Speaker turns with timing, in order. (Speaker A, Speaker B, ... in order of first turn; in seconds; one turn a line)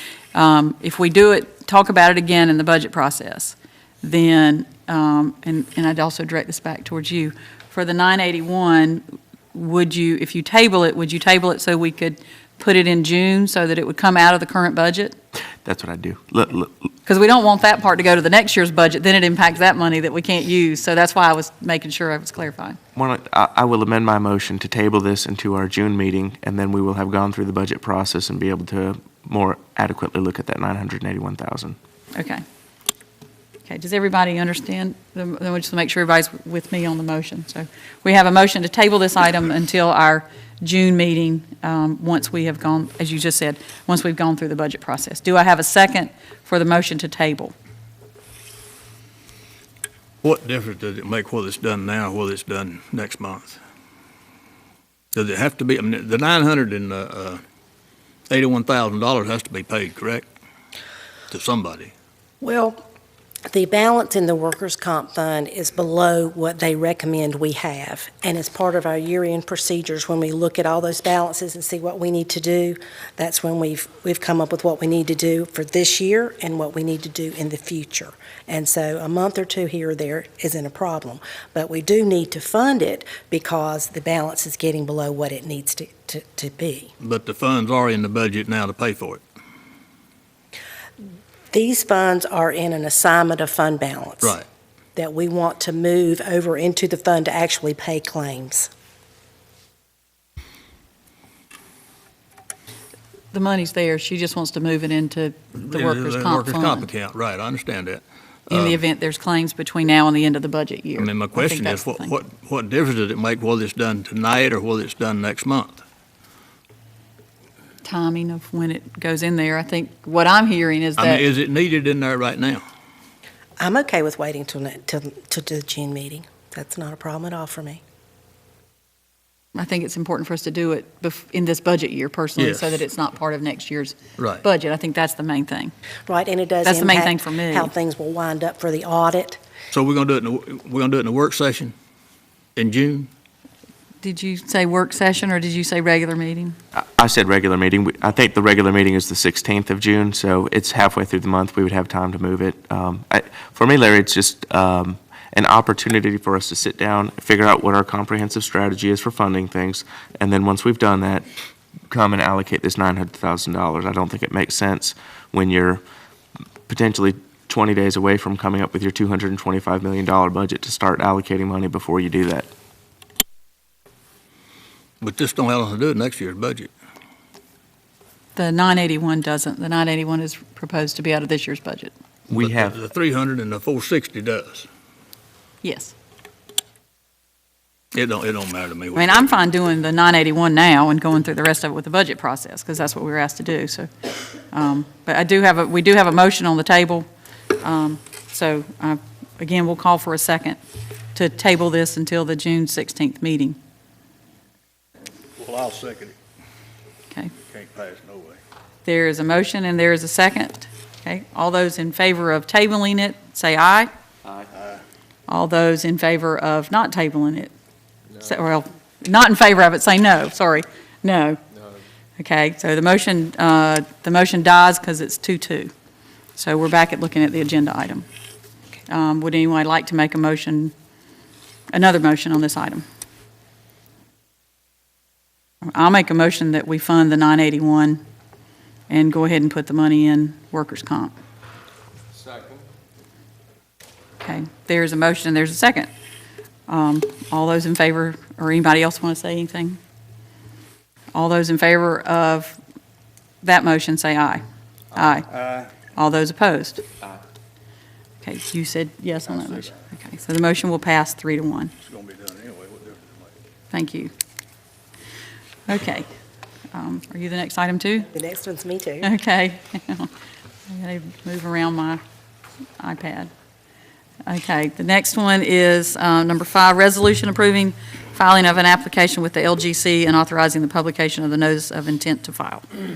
Speaker A: 0.3-15.2
Speaker B: 15.7-16.7
Speaker A: 17.1-22.8
Speaker B: 22.9-31.8
Speaker A: 32.1-32.4
Speaker A: 33.7-47.5
Speaker C: 50.2-53.6
Speaker C: 55.1-57.4
Speaker C: 58.3-60.3
Speaker C: 61.3-61.9
Speaker D: 62.4-62.8
Speaker D: 63.5-86.9
Speaker C: 87.0-89.2
Speaker D: 91.5-94.4
Speaker D: 95.0-98.7
Speaker A: 103.3-106.9
Speaker C: 105.6-108.8
Speaker A: 108.5-112.2
Speaker C: 111.0-115.8
Speaker A: 117.8-121.3
Speaker C: 121.0-122.6
Speaker D: 123.6-127.8
Speaker A: 129.6-135.7
Speaker C: 132.4-132.8
Speaker C: 134.2-134.4
Speaker D: 136.1-139.4
Speaker A: 136.6-137.7
Speaker C: 139.7-141.7
Speaker C: 142.6-143.1
Speaker A: 144.0-146.6
Speaker B: 146.8-161.2
Speaker B: 161.9-165.8
Speaker B: 166.7-172.5
Speaker C: 175.0-176.7
Speaker A: 178.3-181.9
Speaker B: 182.3-182.8
Speaker C: 182.3-184.7
Speaker A: 185.6-185.9
Speaker C: 187.9-189.3
Speaker A: 188.9-193.9
Speaker A: 194.5-197.1
Speaker A: 197.6-200.6
Speaker A: 201.1-203.6
Speaker C: 205.4-206.2
Speaker C: 207.5-208.4
Speaker A: 208.8-213.9
Speaker C: 214.5-214.8
Speaker A: 215.3-217.5
Speaker A: 218.2-221.4
Speaker A: 222.2-225.7
Speaker A: 226.4-228.1
Speaker A: 228.9-230.7
Speaker A: 231.7-232.8
Speaker A: 235.6-238.0
Speaker A: 238.9-241.1
Speaker A: 244.2-245.9
Speaker A: 246.7-249.8
Speaker A: 251.1-252.6
Speaker A: 253.4-254.4
Speaker A: 254.9-255.3
Speaker C: 255.3-255.7
Speaker A: 255.9-256.8
Speaker A: 258.2-261.7
Speaker C: 261.8-263.3
Speaker A: 263.7-264.1
Speaker A: 265.7-266.1
Speaker A: 266.7-268.1
Speaker D: 268.1-269.1
Speaker A: 269.0-270.1
Speaker A: 270.7-272.0
Speaker A: 272.8-273.3
Speaker A: 274.3-282.6